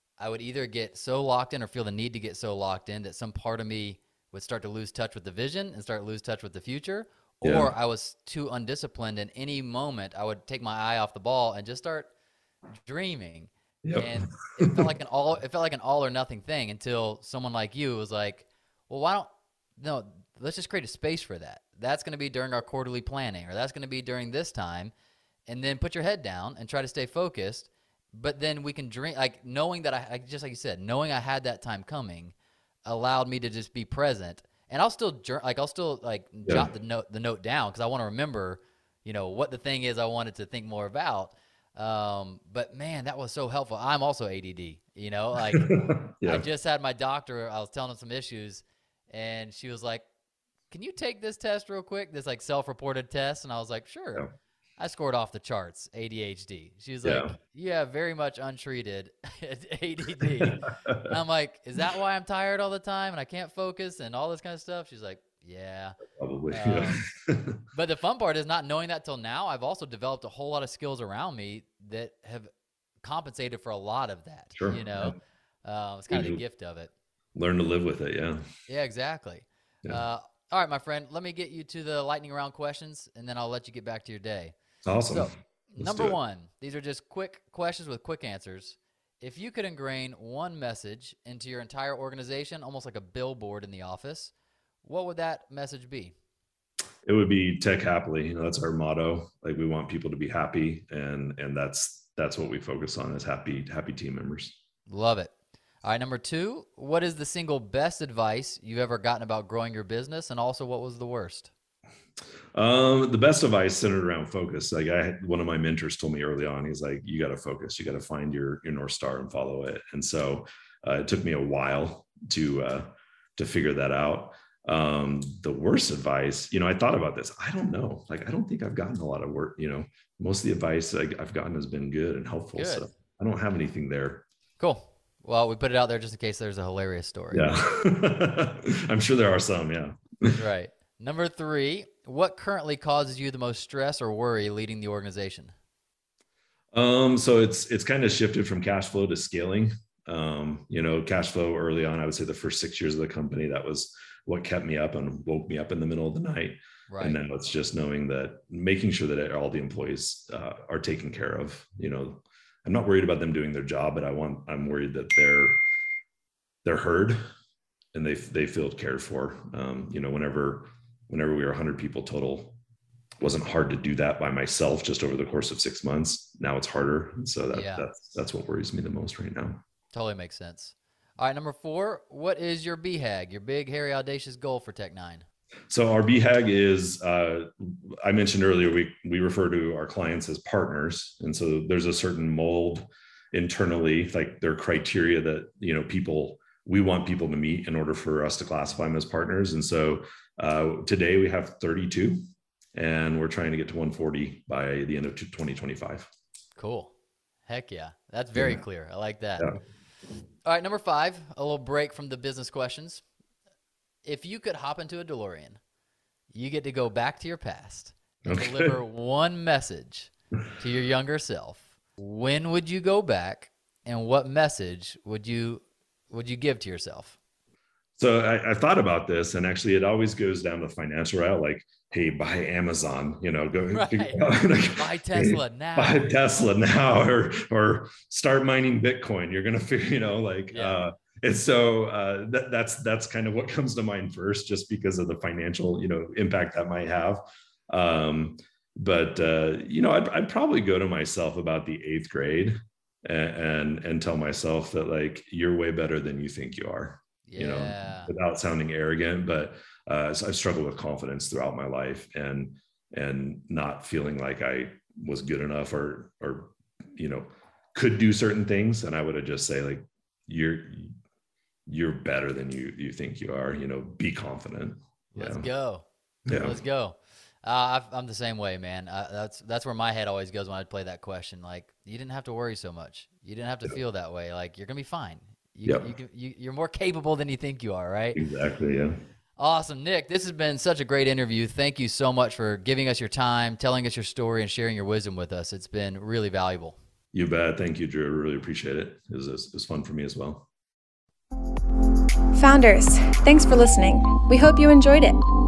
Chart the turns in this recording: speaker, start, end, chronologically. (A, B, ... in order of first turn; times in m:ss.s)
0:00.2-0:12.1 A
0:07.4-0:07.7 B
0:12.8-0:24.9 A
0:13.8-0:14.8 B
0:25.5-0:32.3 A
0:32.8-0:50.0 A
0:45.5-0:46.4 B
0:50.7-1:06.0 A
0:57.0-0:57.3 B
1:00.4-1:01.1 B
1:06.1-1:07.6 B
1:06.5-1:07.0 A
1:07.7-1:12.5 A
1:13.0-1:16.9 A
1:14.5-1:15.2 B
1:16.1-1:16.4 B
1:17.3-1:18.4 B
1:18.7-1:24.5 A
1:24.8-1:26.2 B
1:25.1-1:34.3 A
1:34.8-1:36.1 A
1:37.0-1:44.6 B
1:44.9-1:45.3 A
1:45.8-1:51.5 A
1:52.5-2:14.2 B
2:12.5-2:12.8 A
2:14.6-2:17.5 A
2:17.3-2:20.4 B
2:20.3-2:25.5 A
2:26.7-2:45.6 B
2:36.9-2:37.2 A
2:46.6-2:47.2 B
2:47.9-2:52.6 B
2:53.2-2:59.6 B
2:57.5-2:57.9 A
2:59.9-3:05.2 A
3:05.7-3:22.2 B
3:22.7-3:26.1 B
3:26.6-3:26.9 A
3:27.5-3:29.5 A
3:28.4-3:28.6 B
3:30.4-3:33.0 A
3:34.0-3:35.6 A
3:36.3-3:47.2 A
3:38.2-3:38.7 B
3:48.0-4:30.9 B
3:53.7-3:56.1 A
4:00.5-4:00.8 A
4:17.3-4:18.1 A
4:31.7-4:35.5 B
4:35.1-4:35.8 A
4:36.2-4:36.6 B
4:36.4-4:48.2 A
4:45.6-4:45.9 B
4:48.1-4:49.0 B
4:49.4-4:56.8 A
4:57.1-5:00.5 B
5:02.3-5:05.2 C